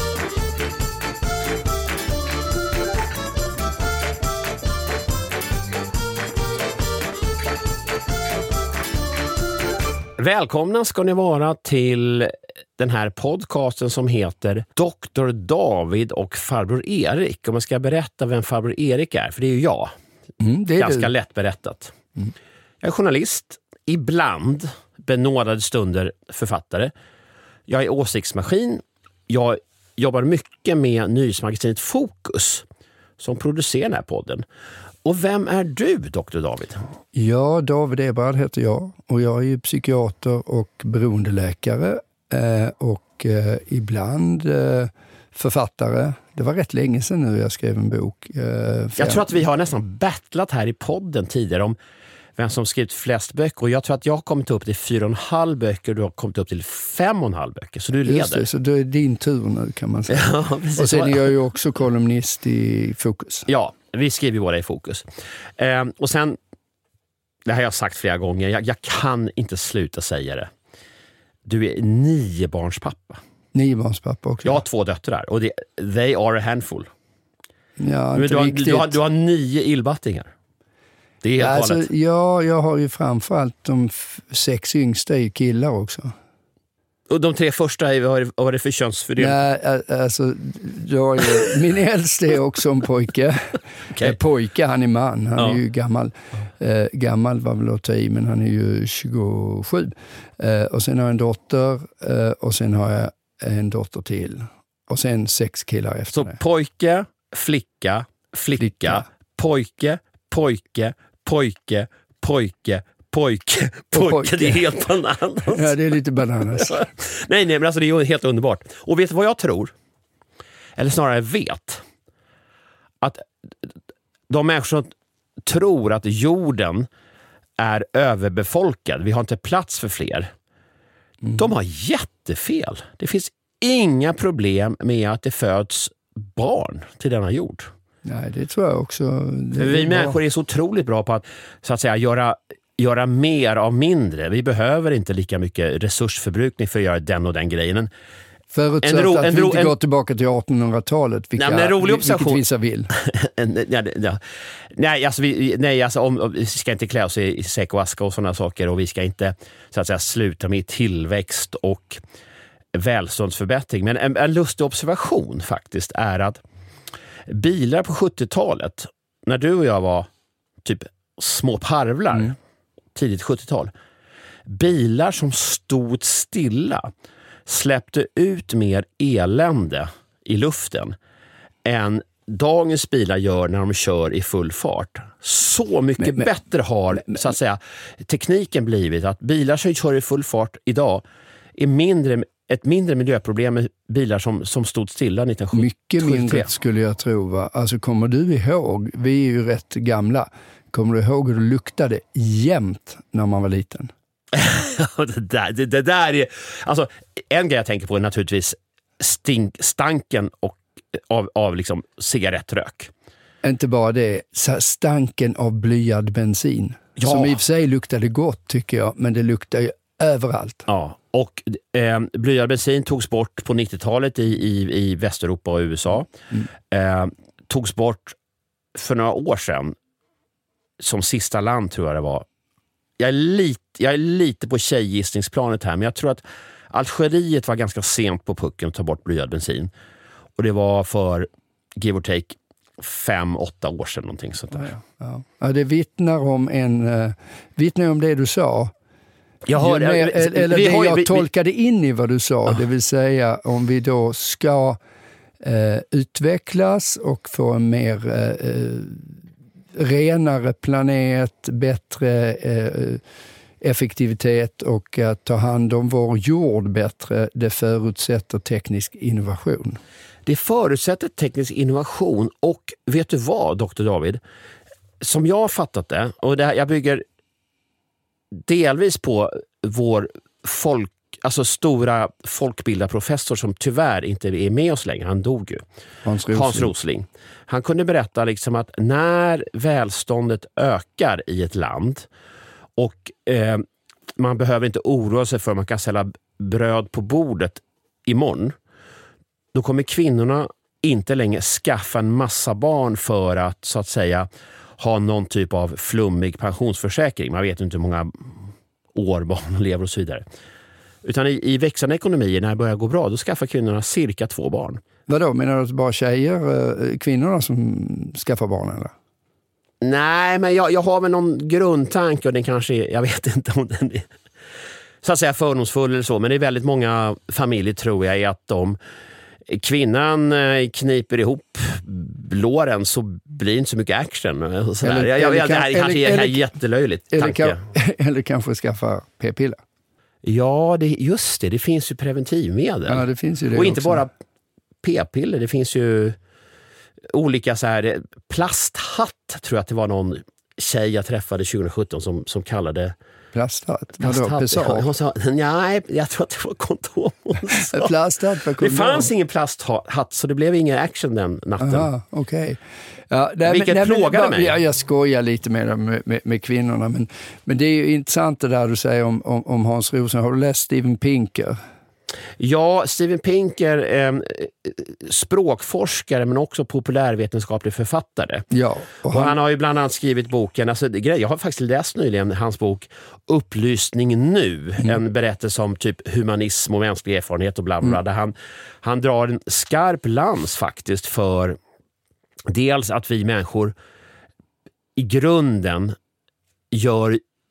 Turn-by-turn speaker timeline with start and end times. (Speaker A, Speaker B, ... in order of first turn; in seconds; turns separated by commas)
Speaker A: 10.2-19.9, Speaker B: 20.4-21.1, Speaker A: 20.8-21.9, Speaker A: 22.8-26.9, Speaker A: 27.7-32.6, Speaker A: 33.2-34.4, Speaker A: 35.0-36.8, Speaker B: 37.1-49.4, Speaker A: 49.0-51.8, Speaker A: 52.4-58.5, Speaker B: 58.0-63.5, Speaker A: 60.1-61.3, Speaker A: 63.5-65.1, Speaker A: 65.6-66.4, Speaker A: 67.5-70.5, Speaker A: 71.5-73.2, Speaker B: 73.5-74.6, Speaker A: 74.4-76.9, Speaker B: 77.8-78.9, Speaker A: 78.1-80.3, Speaker A: 81.2-81.9, Speaker B: 81.4-86.1, Speaker A: 87.1-89.4, Speaker B: 89.2-106.4, Speaker A: 106.1-115.7, Speaker B: 108.6-109.0, Speaker B: 113.9-114.6, Speaker B: 115.5-116.9, Speaker A: 116.5-119.7, Speaker A: 120.8-121.8, Speaker A: 123.0-123.7, Speaker A: 124.3-124.9, Speaker A: 125.5-126.9, Speaker A: 127.6-130.3, Speaker A: 131.3-137.7, Speaker B: 138.0-140.2, Speaker A: 139.6-147.9, Speaker B: 148.5-152.9, Speaker A: 148.8-149.7, Speaker A: 151.4-154.2, Speaker A: 154.7-162.0, Speaker A: 162.7-166.4, Speaker A: 167.3-170.1, Speaker A: 170.6-172.3, Speaker A: 172.9-173.7, Speaker A: 174.5-176.9, Speaker A: 177.4-180.9, Speaker A: 181.6-191.0, Speaker B: 186.0-186.3, Speaker A: 191.6-196.5, Speaker B: 195.5-203.9, Speaker A: 204.3-212.9, Speaker B: 213.4-220.7, Speaker A: 217.0-217.4, Speaker A: 220.7-226.1, Speaker A: 226.7-228.2, Speaker A: 228.7-229.7, Speaker A: 230.8-232.2, Speaker A: 233.0-239.7, Speaker A: 240.4-244.7, Speaker B: 244.5-248.7, Speaker A: 249.4-251.2, Speaker B: 249.5-254.8, Speaker B: 255.4-259.1, Speaker B: 259.7-263.0, Speaker B: 263.6-269.8, Speaker A: 270.2-274.2, Speaker A: 275.0-277.0, Speaker A: 278.4-285.6, Speaker B: 286.0-286.7, Speaker A: 286.3-292.1, Speaker A: 292.8-293.6, Speaker A: 294.2-298.5, Speaker A: 299.5-304.3, Speaker A: 304.8-310.2, Speaker A: 311.0-314.8, Speaker B: 315.1-318.9, Speaker A: 319.8-324.1, Speaker A: 325.0-328.8, Speaker A: 329.5-337.6, Speaker B: 334.8-336.4, Speaker B: 337.1-339.6, Speaker A: 340.2-344.1, Speaker B: 342.9-344.1, Speaker A: 344.8-346.2, Speaker A: 347.1-352.9, Speaker B: 353.3-354.9, Speaker A: 354.0-357.9, Speaker B: 357.5-359.1, Speaker A: 358.6-361.9, Speaker B: 361.6-371.6, Speaker A: 363.4-364.6, Speaker A: 372.4-378.4, Speaker B: 378.5-379.3, Speaker A: 379.1-391.6, Speaker A: 392.5-393.7, Speaker A: 395.0-395.9, Speaker A: 396.7-397.2